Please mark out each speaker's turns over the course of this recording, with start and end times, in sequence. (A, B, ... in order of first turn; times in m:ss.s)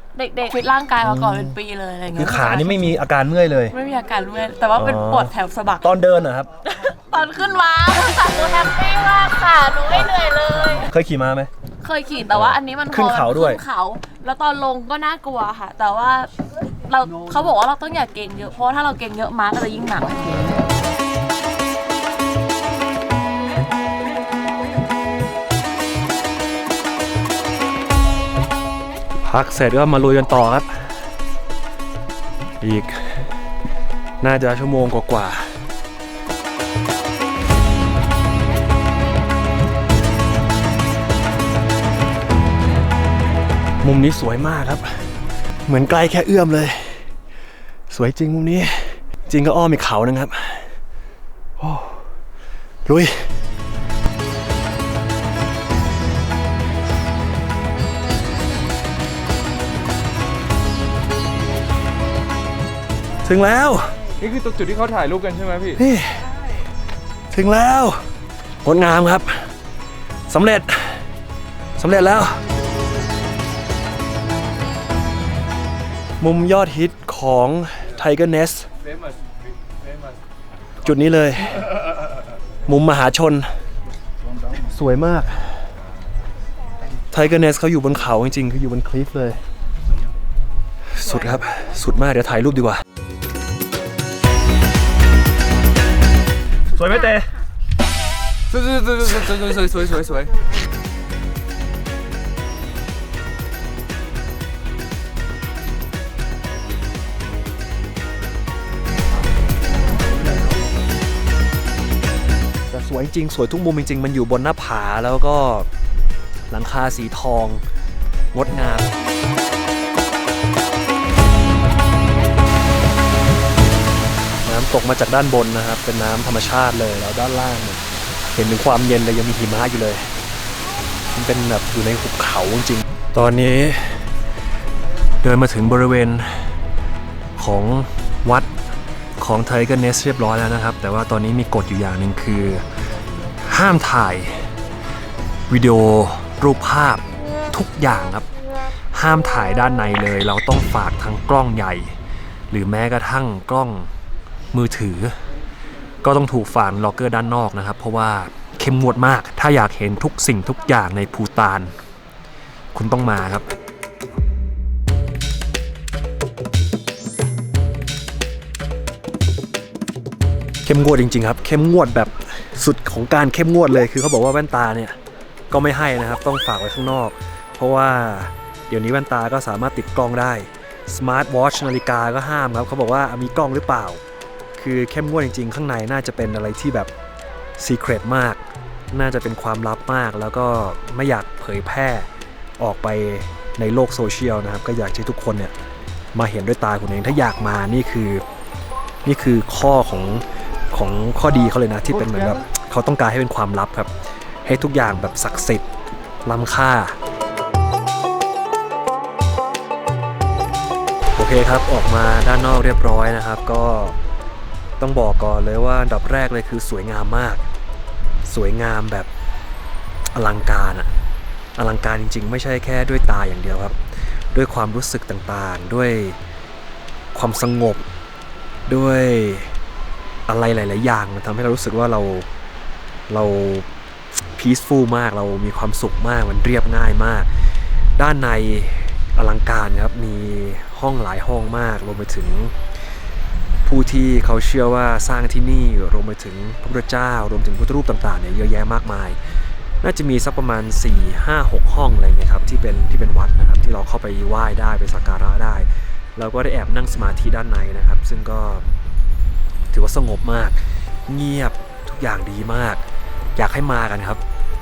0:00.1-0:02.9 A
0:01.0-0:01.5 B
0:02.1-0:03.8 B
0:03.7-0:05.8 A
0:04.8-0:06.5 B
0:06.6-0:10.9 A
0:10.8-0:11.5 B
0:11.8-0:16.3 A
0:12.3-0:13.6 B
0:16.8-0:20.6 A
0:29.2-0:30.9 B
0:32.6-0:33.0 B
0:34.2-0:35.5 B
0:43.8-0:45.1 B
0:45.6-0:47.1 B
0:47.9-0:50.8 B
0:51.6-0:52.1 B
0:52.8-0:53.3 B
1:03.2-1:03.9 B
1:04.2-1:05.8 C
1:05.8-1:06.3 B
1:07.3-1:08.0 B
1:08.6-1:09.5 B
1:10.3-1:11.0 B
1:11.8-1:12.4 B
1:16.2-1:18.7 B
1:20.8-1:21.7 B
1:22.6-1:23.5 B
1:24.6-1:25.6 B
1:27.1-1:29.4 B
1:30.9-1:32.8 B
1:36.7-1:37.3 B
1:38.5-1:40.3 C
1:52.7-1:55.7 B
1:56.5-1:57.6 B
1:58.3-1:58.9 B
2:04.4-2:07.8 B
2:08.3-2:10.1 B
2:11.1-2:14.1 B
2:15.2-2:16.5 B
2:17.4-2:18.5 B
2:19.2-2:22.6 B
2:23.4-2:24.5 B
2:25.5-2:28.2 B
2:28.9-2:31.9 B
2:32.5-2:33.9 B
2:34.5-2:35.1 B
2:36.0-2:41.7 B
2:42.7-2:43.5 B
2:50.6-2:55.0 B
2:55.5-3:04.0 B
3:04.6-3:06.9 B
3:07.6-3:08.4 B
3:08.9-3:15.5 B
3:16.1-3:18.2 B
3:19.0-3:25.6 B
3:26.2-3:27.0 B
3:31.1-3:34.0 B
3:34.8-3:37.4 B
3:38.2-3:39.1 B
3:40.1-3:40.9 B
3:41.6-3:43.8 B
3:44.3-3:46.2 B
3:47.1-3:47.9 B
3:48.7-3:49.5 B
3:50.3-3:52.3 B
3:53.1-3:53.7 B
3:54.3-3:57.3 B
3:58.0-4:02.6 B
4:03.6-4:09.2 B
4:09.8-4:18.6 B
4:19.7-4:22.8 B
4:23.4-4:24.2 B